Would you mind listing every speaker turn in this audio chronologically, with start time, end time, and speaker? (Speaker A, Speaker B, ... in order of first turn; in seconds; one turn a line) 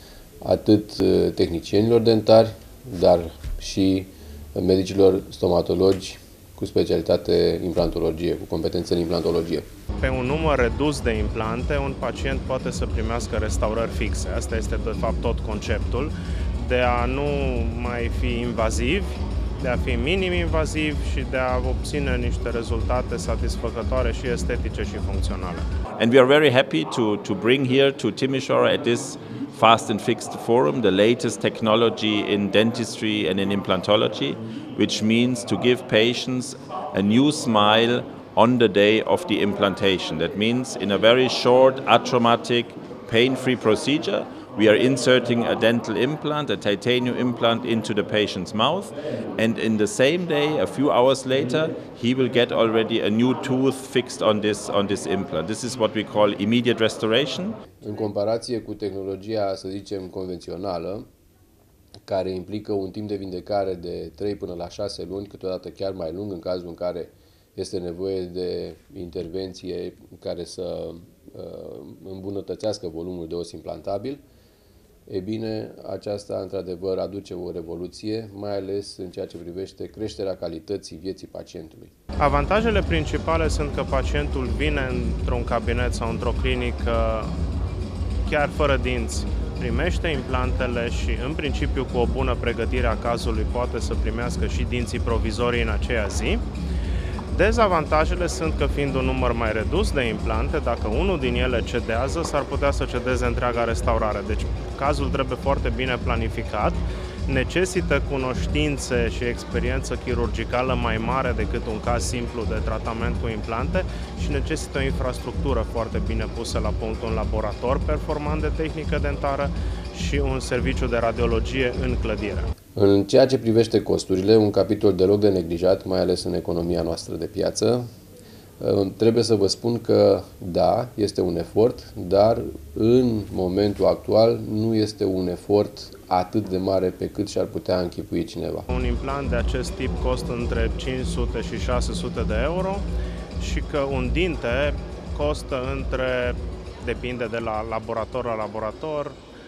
Speaker A: 0.4-9.7
Speaker B: 10.0-25.7
Speaker C: 26.0-57.6
Speaker A: 57.8-61.1
Speaker A: 62.1-74.2
Speaker A: 75.1-81.9
Speaker B: 82.2-87.3
Speaker B: 88.2-96.4
Speaker B: 97.3-122.5
Speaker A: 122.8-127.9
Speaker A: 128.6-138.7
Speaker B: 138.7-142.9
Speaker B: 143.4-149.2